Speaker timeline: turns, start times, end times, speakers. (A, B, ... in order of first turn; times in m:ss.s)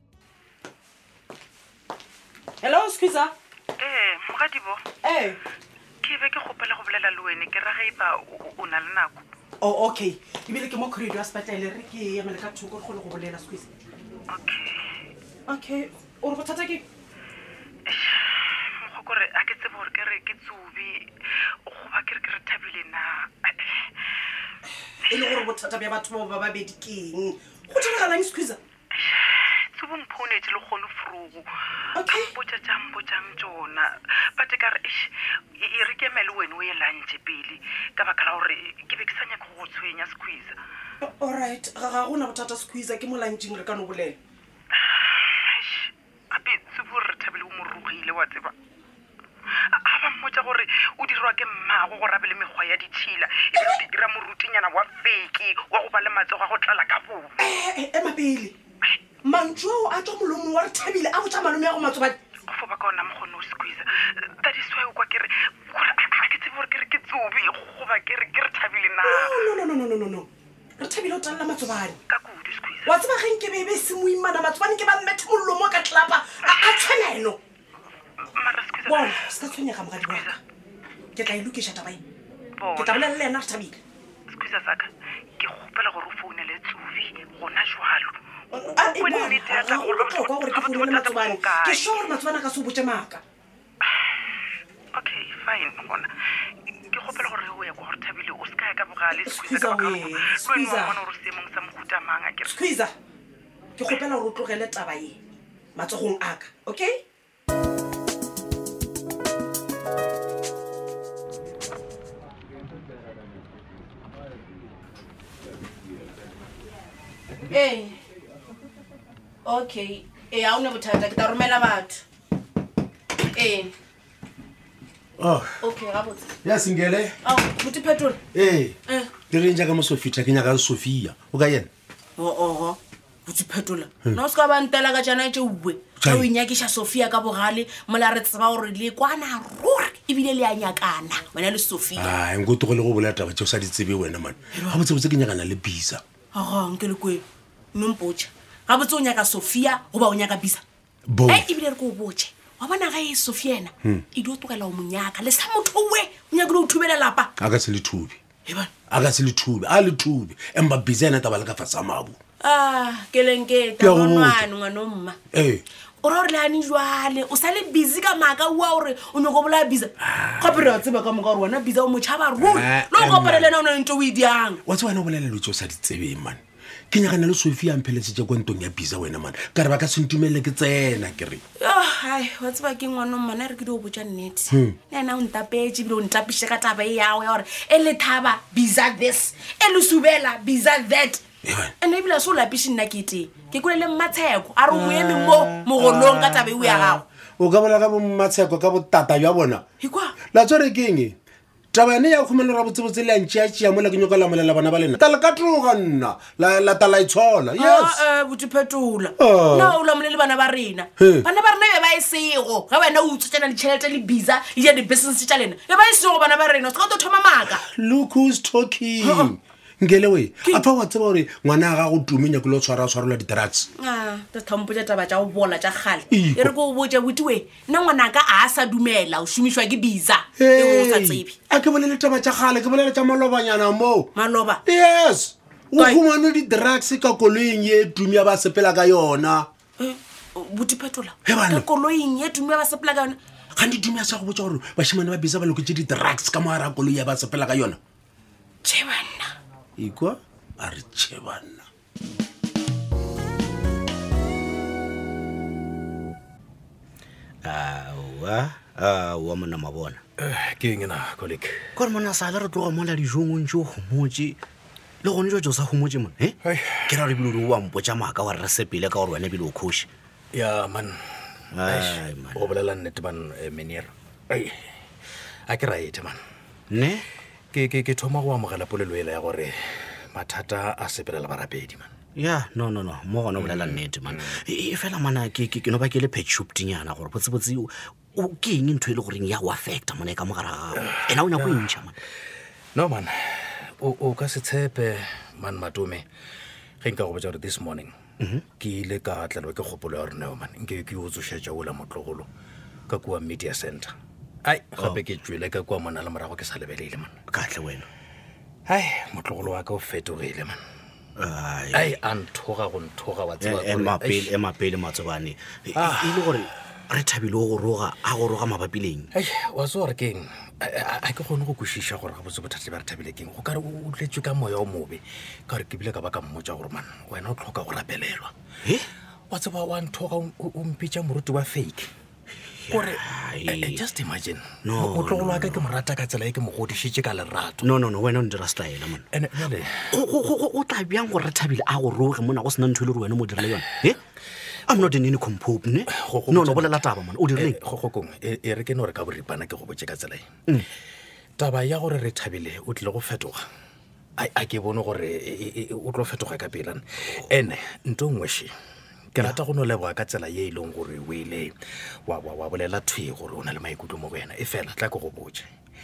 0:02.6-0:03.3 A
0:03.8-0:04.8 B
0:05.0-0:05.4 A
0:06.0-0:09.2 B
0:09.6-0:13.7 A
0:14.3-0:14.8 B
0:15.5-0:16.8 A
0:17.8-0:21.1 B
0:21.6-0:23.9 B
0:25.1-0:25.5 B
0:25.1-0:28.6 A
0:28.9-0:40.5 B
0:31.9-0:32.3 A
0:41.0-0:44.2 A
0:44.8-0:48.5 B
0:49.7-0:57.3 B
0:53.5-0:53.8 A
0:57.4-0:58.5 A
0:59.2-1:02.2 A
1:02.5-1:03.9 B
1:04.4-1:09.6 B
1:09.0-1:10.3 A
1:10.8-1:12.0 A
1:12.1-1:13.0 B
1:12.8-1:17.4 A
1:16.4-1:17.0 B
1:18.4-1:19.3 B
1:18.8-1:20.4 A
1:20.0-1:20.4 B
1:21.1-1:22.0 A
1:22.6-1:23.2 B
1:22.7-1:23.8 A
1:24.3-1:32.1 B
1:28.5-1:33.2 A
1:34.9-1:36.1 B
1:36.9-1:42.7 B
1:39.1-1:40.9 A
1:42.4-1:42.9 A
1:43.8-1:45.2 A
1:45.7-1:47.0 A
1:57.5-1:58.0 C
1:59.4-2:02.0 C
2:03.3-2:03.7 C
2:05.2-2:05.5 D
2:05.6-2:06.3 C
2:06.4-2:07.1 D
2:07.2-2:08.2 C
2:08.3-2:08.8 D
2:08.9-2:09.1 C
2:09.3-2:11.7 D
2:12.2-2:22.1 C
2:16.0-2:16.3 D
2:22.0-2:26.0 D
2:26.3-2:30.6 C
2:31.1-2:31.5 D
2:31.3-2:37.3 C
2:37.4-2:38.2 D
2:38.7-2:42.2 D
2:42.4-2:45.2 C
2:43.8-2:44.4 D
2:45.3-2:45.6 D
2:46.0-2:54.6 C
2:52.4-2:53.5 D
2:54.6-2:56.4 D
2:56.9-3:01.4 D
3:01.6-3:11.2 C
3:11.4-3:11.7 D
3:11.8-3:17.0 C
3:15.9-3:19.6 D
3:19.8-3:20.1 C
3:20.3-3:21.2 D
3:21.7-3:28.0 D
3:27.6-3:37.6 C
3:29.2-3:29.8 D
3:31.0-3:31.2 D
3:37.6-3:43.7 D
3:39.0-3:39.3 C
3:43.8-3:51.4 C
3:46.1-3:46.5 D
3:50.4-3:54.1 D
3:54.1-3:54.6 C
3:54.6-3:59.5 D
3:55.8-3:56.0 C
3:59.8-4:03.2 C
4:01.2-4:01.6 D
4:03.6-4:07.8 D
4:08.6-4:09.3 C
4:09.8-4:11.7 D
4:17.4-4:20.0 E
4:20.2-4:21.6 F
4:21.8-4:24.4 E
4:25.0-4:26.3 E
4:26.4-4:27.1 F
4:26.8-4:29.9 E
4:30.3-4:31.0 F
4:31.5-4:32.6 E
4:31.6-4:34.5 F
4:35.5-4:36.2 F
4:36.7-4:37.0 E
4:37.5-4:39.5 F
4:40.1-4:41.9 F
4:42.2-4:52.0 E
4:43.4-4:44.4 F
4:50.8-4:51.8 F
4:52.7-4:56.0 F
4:56.8-4:57.9 F
4:58.6-5:02.3 F
5:02.9-5:03.9 F
5:04.4-5:07.2 F
5:07.3-5:07.9 E
5:08.7-5:10.6 F
5:11.2-5:12.0 E
5:11.7-5:14.3 F
5:13.4-5:19.1 E
5:15.7-5:16.5 F
5:19.1-5:28.3 F
5:29.3-5:31.9 F
5:32.7-5:33.8 E
5:32.7-5:37.8 F
5:34.6-5:35.6 E
5:37.6-5:39.0 E
5:39.1-5:39.9 F
5:39.9-5:44.0 E
5:44.7-5:47.6 E
5:45.9-5:50.2 F
5:51.4-5:53.4 F
5:54.2-5:58.5 F
5:59.1-6:01.5 F
6:02.1-6:05.5 F